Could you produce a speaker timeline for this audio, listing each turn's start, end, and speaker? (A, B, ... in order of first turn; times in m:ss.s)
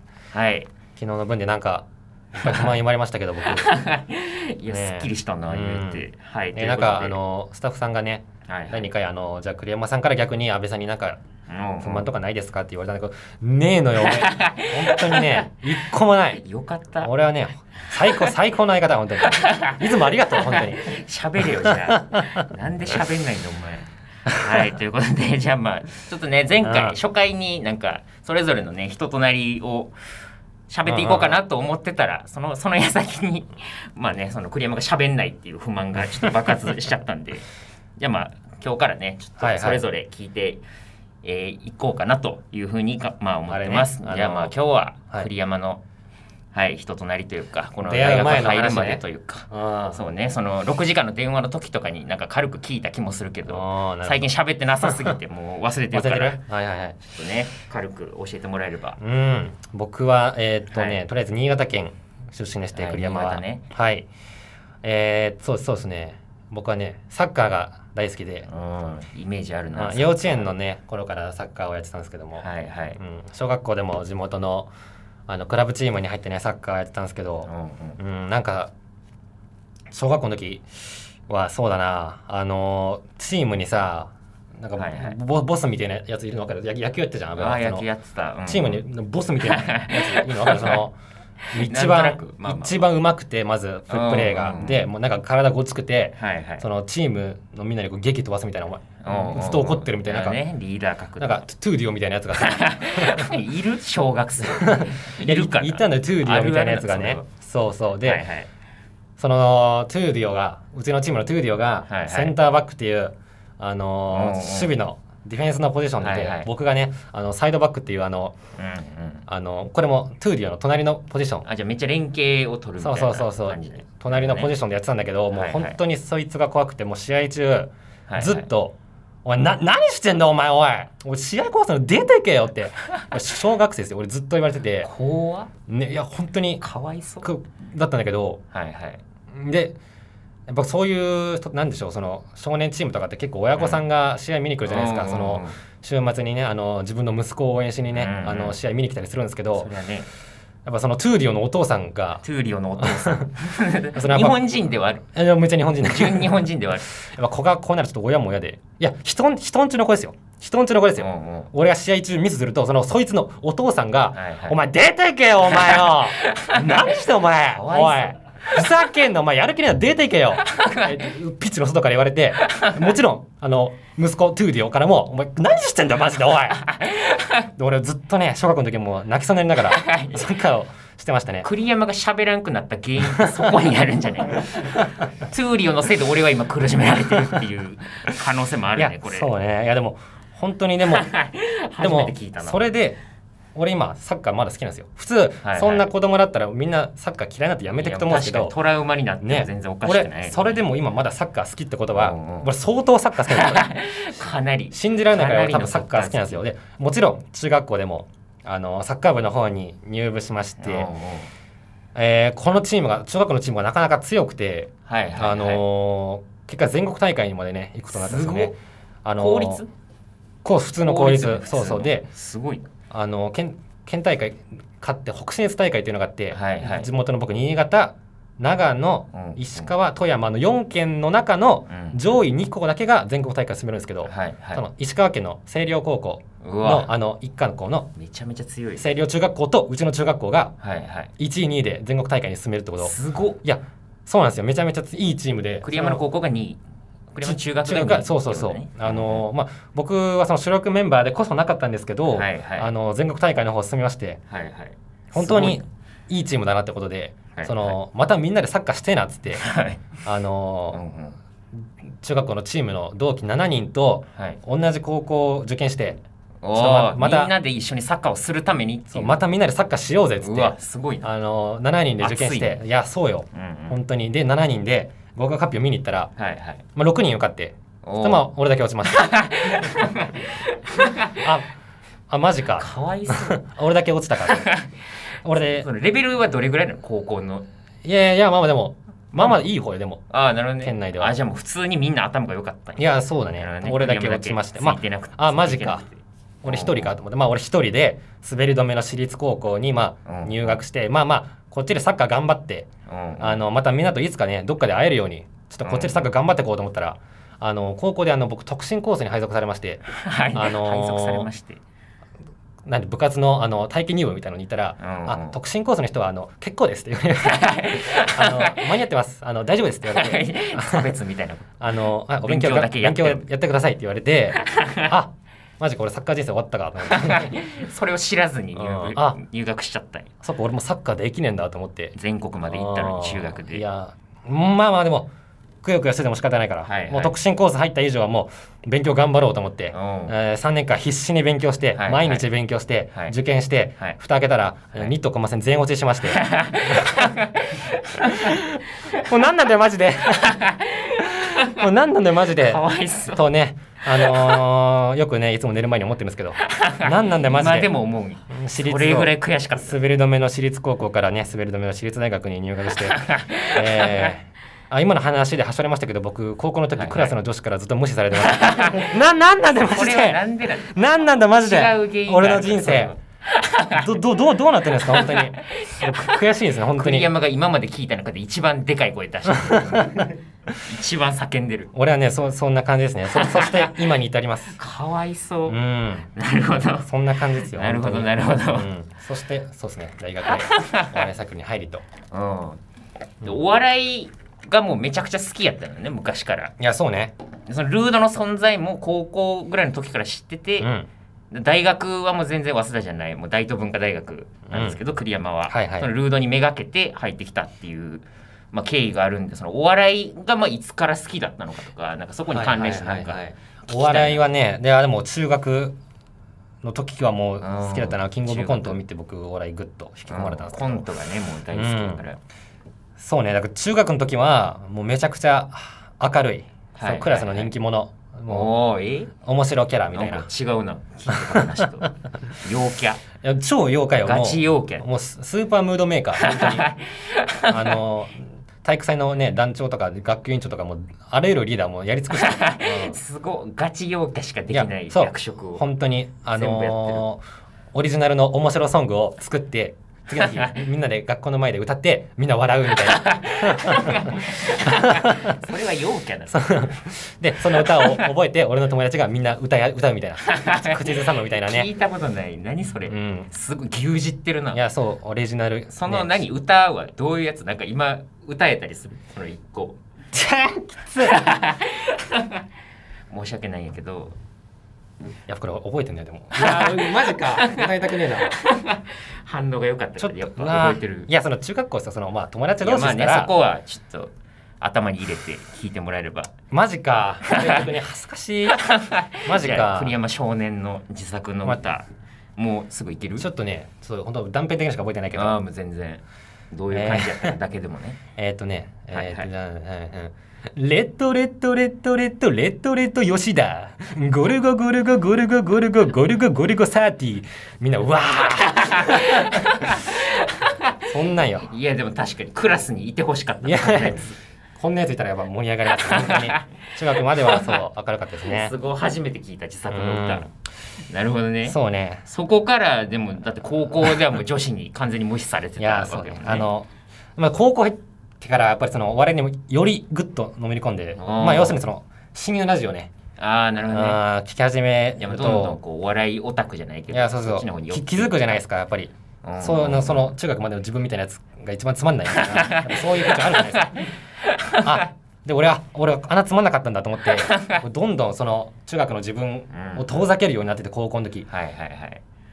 0:00.3-0:00.7 A
0:01.0-0:03.7 B
0:02.4-0:02.7 A
0:03.4-0:07.2 A
0:04.7-0:11.2 B
0:08.5-0:08.9 A
0:11.5-0:12.1 A
0:11.8-0:16.4 B
0:14.0-0:15.5 A
0:16.3-0:17.1 A
0:17.0-0:20.9 B
0:18.0-0:18.3 A
0:19.2-0:29.9 A
0:21.4-0:22.4 B
0:26.6-0:27.0 B
0:30.7-0:40.6 A
0:30.8-0:31.3 B
0:39.4-0:39.8 B
0:41.2-0:45.8 A
0:43.5-0:44.5 B
0:46.5-0:56.4 A
0:47.8-0:50.0 B
0:53.4-0:55.2 B
0:55.9-0:57.0 B
0:57.0-0:59.0 A
0:59.0-1:04.1 B
1:00.7-1:01.0 A
1:02.7-1:03.6 A
1:04.8-1:08.5 B
1:08.5-1:10.5 A
1:09.7-1:12.5 B
1:12.4-1:13.0 A
1:13.0-1:14.7 B
1:15.3-1:18.7 B
1:17.4-1:18.0 A
1:19.9-1:20.6 B
1:21.3-1:27.8 B
1:24.7-1:25.2 A
1:27.4-1:28.8 A
1:28.4-1:30.9 B
1:29.4-1:30.8 A
1:31.5-1:40.4 B
1:31.5-1:32.8 A
1:33.9-1:34.9 A
1:36.2-1:36.6 A
1:39.0-1:41.4 A
1:41.2-1:43.3 B
1:42.3-1:47.2 A
1:44.4-1:48.2 B
1:48.0-1:48.5 A
1:49.2-1:58.4 B
1:51.8-1:52.4 A
1:54.1-1:54.7 A
1:56.0-1:56.5 A
1:58.6-1:59.2 A
1:59.3-2:01.4 B
2:01.4-2:04.5 A
2:02.8-2:14.9 B
2:05.3-2:05.8 A
2:08.1-2:08.5 A
2:14.8-2:15.5 A
2:15.7-2:16.6 B
2:16.6-2:17.3 A
2:17.2-2:18.4 B
2:18.5-2:19.0 A
2:19.3-2:19.8 B
2:20.5-2:29.7 B
2:23.6-2:23.8 A
2:24.6-2:25.6 A
2:27.9-2:28.6 A
2:29.5-2:30.1 A
2:30.6-2:32.2 B
2:32.2-2:35.0 A
2:32.8-2:33.3 B
2:33.9-2:34.4 B
2:35.1-2:56.7 B
2:35.8-2:36.9 A
2:41.0-2:41.5 A
2:44.1-2:44.6 A
2:45.4-2:48.2 A
2:50.4-2:51.1 A
2:52.4-2:52.7 A
2:56.6-2:57.4 A
2:57.6-3:01.5 B
2:59.6-3:00.3 A
3:01.4-3:09.4 A
3:03.1-3:03.5 B
3:07.1-3:07.4 B
3:08.7-3:11.1 B
3:10.8-3:12.6 A
3:11.8-3:13.0 B
3:13.5-3:18.5 B
3:15.4-3:15.9 A
3:17.8-3:20.6 A
3:19.2-3:23.7 B
3:21.9-3:22.5 A
3:23.2-3:26.4 A
3:24.7-3:30.9 B
3:30.6-3:31.3 A
3:31.9-3:38.5 B
3:34.8-3:35.6 A
3:37.9-3:38.5 A
3:39.0-3:39.6 B
3:39.2-3:39.7 A
3:40.4-3:42.1 B
3:40.8-3:42.7 A
3:42.9-3:57.9 B
3:46.3-3:46.9 A
3:49.1-3:49.7 A
3:51.7-3:52.0 A
3:54.0-3:54.6 A
3:56.4-3:56.9 A
3:57.9-3:58.9 A
3:58.8-4:00.5 B
4:00.6-4:01.1 A
4:01.2-4:06.0 B
4:02.8-4:03.4 A
4:05.6-4:06.6 A
4:07.1-4:09.2 A
4:07.2-4:14.2 B
4:12.1-4:12.7 A
4:14.3-4:15.6 A
4:15.1-4:19.5 B
4:17.3-4:17.8 A
4:19.4-4:19.9 A
4:20.0-4:20.8 B
4:20.7-4:21.2 A
4:22.0-4:26.0 B
4:24.1-4:24.4 A
4:26.4-4:29.2 A
4:26.5-4:27.3 B
4:28.9-4:36.1 B
4:30.2-4:31.1 A
4:32.0-4:32.6 A
4:33.3-4:33.8 A
4:36.2-4:36.6 A
4:36.8-4:39.8 B
4:37.8-4:38.3 A
4:38.9-4:41.2 A
4:41.2-4:41.5 B
4:42.1-4:44.5 B
4:42.5-4:43.4 A
4:44.2-4:44.8 A
4:45.2-4:45.7 B
4:45.5-4:47.5 A
4:47.8-4:50.0 B
4:49.1-4:49.5 A
4:50.1-4:56.9 A
4:50.6-4:51.1 B
4:52.8-4:55.9 B
4:56.4-5:02.7 B
5:00.0-5:00.6 A
5:02.9-5:03.4 A
5:03.2-5:11.3 B
5:05.6-5:06.0 A
5:09.9-5:11.6 A
5:12.6-5:20.9 B
5:14.8-5:15.4 A
5:17.2-5:18.7 A
5:19.9-5:23.3 A
5:21.6-5:27.4 B
5:24.4-5:24.9 A
5:26.9-5:30.1 A
5:28.5-5:29.2 B
5:30.2-5:31.9 B
5:31.9-5:33.6 A
5:32.5-5:35.1 B
5:35.6-5:47.1 B
5:36.6-5:37.1 A
5:39.7-5:40.1 A
5:41.7-5:42.2 A
5:46.1-5:48.4 A
5:48.1-5:48.4 B
5:49.0-5:50.4 B
5:50.2-5:51.6 A
5:51.4-5:57.7 B
5:52.3-5:53.3 A
5:53.9-5:54.4 A
5:56.5-5:59.7 A
5:58.3-6:12.9 B
6:02.9-6:04.1 A
6:06.7-6:07.1 A
6:08.2-6:08.9 A
6:09.6-6:13.8 A
6:13.7-6:17.1 B
6:14.7-6:21.7 A
6:19.3-6:20.1 B
6:21.7-6:24.6 B
6:23.1-6:23.8 A
6:24.6-6:25.6 A
6:25.5-6:26.1 B
6:26.1-6:28.7 A
6:26.7-6:31.8 B
6:30.2-6:31.0 A
6:32.1-6:32.6 A
6:33.2-6:36.5 A
6:36.6-6:37.1 B
6:37.5-6:40.7 A
6:40.6-6:40.9 B
6:41.3-6:54.2 A
6:44.5-6:44.8 B
6:45.5-6:45.9 B
6:52.3-6:55.8 B
6:56.6-7:00.9 B
6:57.4-6:58.8 A
7:00.1-7:02.2 A
7:01.5-7:02.0 B
7:03.0-7:08.5 B
7:06.7-7:07.5 A
7:08.3-7:09.1 A
7:09.2-7:10.3 B
7:09.9-7:13.0 A
7:11.1-7:11.7 B
7:13.2-7:16.7 B
7:14.0-7:14.8 A
7:16.2-7:17.8 A
7:17.5-7:23.0 B
7:22.1-7:25.6 A
7:24.5-7:27.2 B
7:26.3-7:27.1 A
7:27.7-7:35.4 B
7:30.1-7:30.5 A
7:32.8-7:36.8 A
7:36.3-7:41.7 B
7:37.5-7:38.0 A
7:40.3-7:44.6 A
7:42.9-7:43.3 B
7:44.5-7:46.2 B
7:45.7-7:49.8 A
7:50.1-7:51.2 B
7:51.0-7:52.4 A
7:53.1-7:54.2 A
7:55.3-7:58.3 B
7:56.3-8:01.1 A
8:00.0-8:03.3 B
8:02.6-8:06.3 A
8:06.5-8:09.9 B
8:07.3-8:07.6 A
8:08.5-8:11.8 A
8:12.4-8:13.3 A
8:13.2-8:15.4 B
8:15.1-8:18.0 A
8:16.7-8:17.4 B
8:18.2-8:29.7 B
8:18.9-8:19.3 A
8:28.4-8:30.6 A
8:30.8-8:31.5 B
8:31.4-8:34.1 A
8:33.4-8:38.5 B
8:35.7-8:36.4 A
8:37.0-8:37.6 A
8:38.2-8:40.3 A
8:39.7-8:40.3 B
8:40.9-8:46.5 A
8:41.4-8:42.0 B
8:45.6-8:52.9 B
8:51.0-8:51.6 A
8:53.2-8:54.0 A
8:53.7-8:55.6 B
8:55.0-8:58.4 A
8:56.9-9:03.8 B
8:59.2-9:00.1 A
9:02.2-9:04.8 A
9:04.6-9:11.3 B
9:07.2-9:07.6 A
9:09.5-9:10.0 A
9:11.3-9:12.0 A